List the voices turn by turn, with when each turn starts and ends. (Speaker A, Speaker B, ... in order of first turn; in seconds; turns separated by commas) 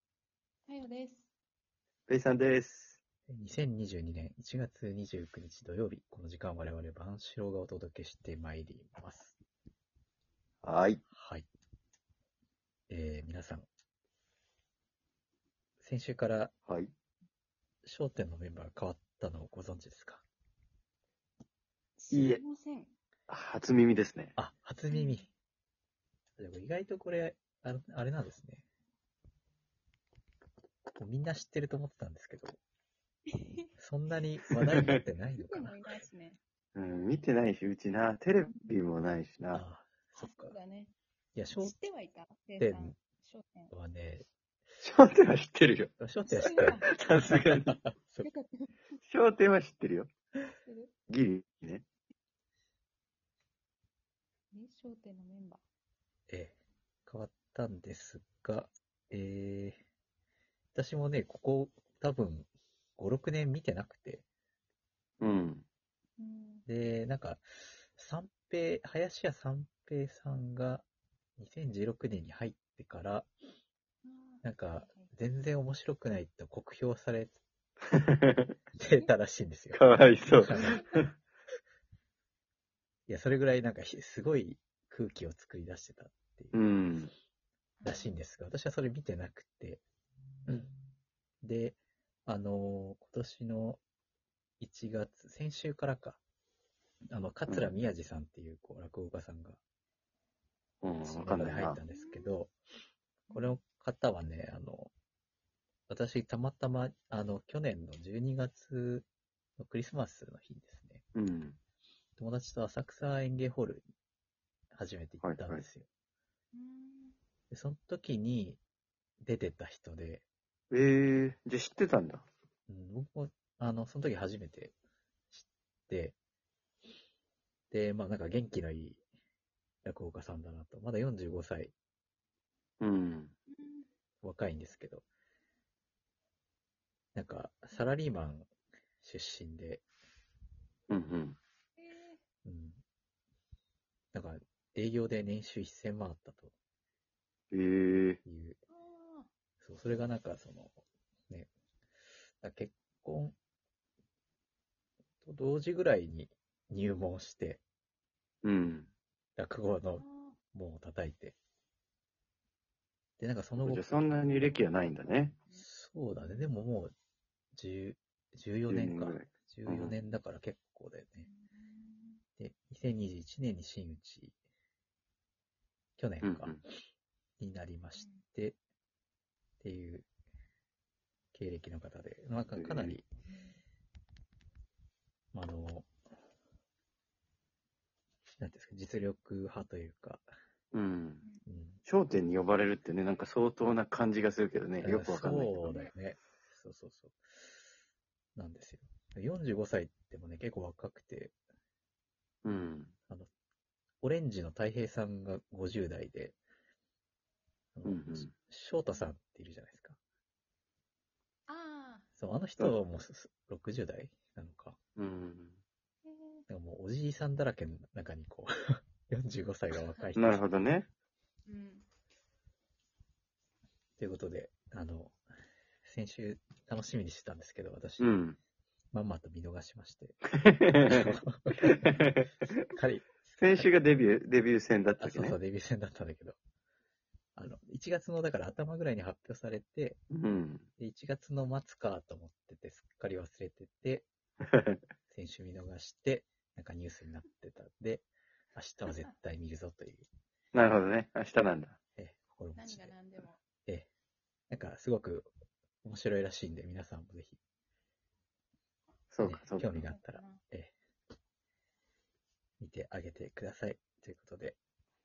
Speaker A: 0.7-1.3, Speaker B: 2.1-3.0, Speaker C: 3.3-9.3, Speaker B: 10.6-11.0, Speaker C: 11.1-11.4, Speaker C: 12.9-13.7, Speaker C: 15.8-16.5, Speaker B: 16.6-16.9, Speaker C: 17.8-20.2, Speaker A: 22.0-22.9, Speaker B: 22.1-22.4, Speaker B: 23.3-24.3, Speaker C: 24.4-25.3, Speaker A: 24.9-25.3, Speaker C: 26.4-28.6, Speaker C: 30.9-32.6, Speaker A: 33.3-33.7, Speaker C: 33.8-36.0, Speaker A: 35.4-36.4, Speaker B: 36.7-39.6, Speaker C: 39.5-40.5, Speaker A: 40.2-40.9, Speaker C: 41.3-41.7, Speaker A: 41.5-43.7, Speaker C: 42.6-42.9, Speaker C: 43.7-44.3, Speaker B: 44.8-45.9, Speaker C: 46.0-48.3, Speaker A: 46.2-47.0, Speaker B: 46.5-47.8, Speaker A: 48.2-48.7, Speaker B: 49.0-50.1, Speaker A: 50.6-50.9, Speaker B: 51.1-51.8, Speaker A: 54.5-55.6, Speaker C: 56.3-59.8, Speaker C: 60.7-64.2, Speaker B: 65.2-65.6, Speaker A: 66.2-66.7, Speaker C: 66.7-70.8, Speaker C: 71.4-73.3, Speaker A: 74.0-75.1, Speaker C: 74.4-77.4, Speaker B: 77.9-78.5, Speaker C: 78.8-79.8, Speaker B: 79.7-81.1, Speaker C: 80.4-80.8, Speaker A: 80.5-81.1, Speaker C: 83.1-86.6, Speaker B: 86.5-87.1, Speaker A: 87.8-88.2, Speaker C: 87.8-89.8, Speaker C: 91.4-93.8, Speaker C: 94.6-96.2, Speaker C: 97.1-99.6, Speaker B: 97.5-97.7, Speaker B: 100.8-101.8, Speaker C: 101.0-102.5, Speaker A: 101.9-102.3, Speaker A: 103.3-103.6, Speaker C: 103.3-104.9, Speaker C: 105.9-111.0, Speaker B: 111.1-111.6, Speaker C: 112.2-113.8, Speaker C: 114.7-115.9, Speaker B: 115.2-115.6, Speaker A: 116.5-117.2, Speaker C: 117.5-118.6, Speaker C: 119.2-120.2, Speaker B: 120.7-122.2, Speaker C: 122.7-124.7, Speaker C: 125.3-126.2, Speaker C: 127.7-129.0, Speaker C: 129.8-131.7, Speaker B: 132.8-133.3, Speaker A: 133.5-133.9, Speaker C: 134.2-135.0, Speaker C: 137.1-139.8, Speaker B: 140.9-141.4, Speaker A: 141.8-142.2, Speaker C: 142.4-142.8, Speaker C: 144.1-146.5, Speaker B: 147.5-148.2, Speaker C: 148.2-148.6, Speaker A: 148.7-149.3, Speaker C: 149.6-151.5, Speaker C: 152.4-153.3, Speaker C: 155.2-157.6, Speaker B: 158.4-158.9, Speaker C: 159.4-161.3, Speaker A: 160.0-160.4, Speaker C: 163.2-164.0, Speaker B: 163.6-165.3, Speaker A: 164.3-165.6, Speaker C: 165.6-166.9, Speaker A: 166.2-166.5, Speaker C: 167.5-171.3, Speaker B: 168.7-169.9, Speaker A: 171.2-172.2, Speaker C: 172.4-174.3, Speaker C: 176.0-176.6, Speaker B: 176.2-176.6, Speaker C: 177.4-178.6, Speaker A: 177.9-178.2, Speaker C: 179.6-180.1, Speaker C: 181.3-183.1, Speaker B: 182.6-183.0, Speaker C: 185.3-185.9, Speaker C: 188.4-190.2, Speaker B: 190.7-191.2, Speaker C: 191.4-191.8, Speaker B: 191.8-195.5, Speaker C: 194.8-197.2, Speaker A: 195.6-195.9, Speaker C: 198.3-201.3, Speaker B: 202.4-202.9, Speaker C: 204.0-206.4, Speaker C: 207.7-210.0, Speaker B: 207.8-208.3, Speaker A: 211.5-212.1, Speaker C: 212.2-214.8, Speaker B: 214.9-215.6, Speaker A: 216.0-216.4, Speaker C: 216.5-220.4, Speaker B: 220.2-220.9, Speaker A: 221.5-221.9, Speaker C: 224.0-225.2, Speaker C: 225.8-228.2, Speaker B: 228.0-228.4, Speaker C: 228.9-230.3, Speaker B: 230.4-232.3, Speaker C: 230.8-232.0, Speaker C: 232.7-233.7, Speaker B: 233.4-235.4, Speaker C: 235.0-236.4, Speaker C: 237.3-240.0, Speaker B: 240.1-240.7, Speaker C: 240.8-244.1, Speaker B: 244.4-244.8, Speaker C: 245.1-250.1, Speaker B: 250.5-251.8, Speaker C: 251.9-252.9, Speaker A: 252.6-253.4, Speaker C: 254.5-255.3, Speaker C: 255.8-257.4, Speaker B: 259.1-259.7, Speaker C: 259.2-260.7, Speaker A: 259.6-260.4, Speaker C: 262.6-264.6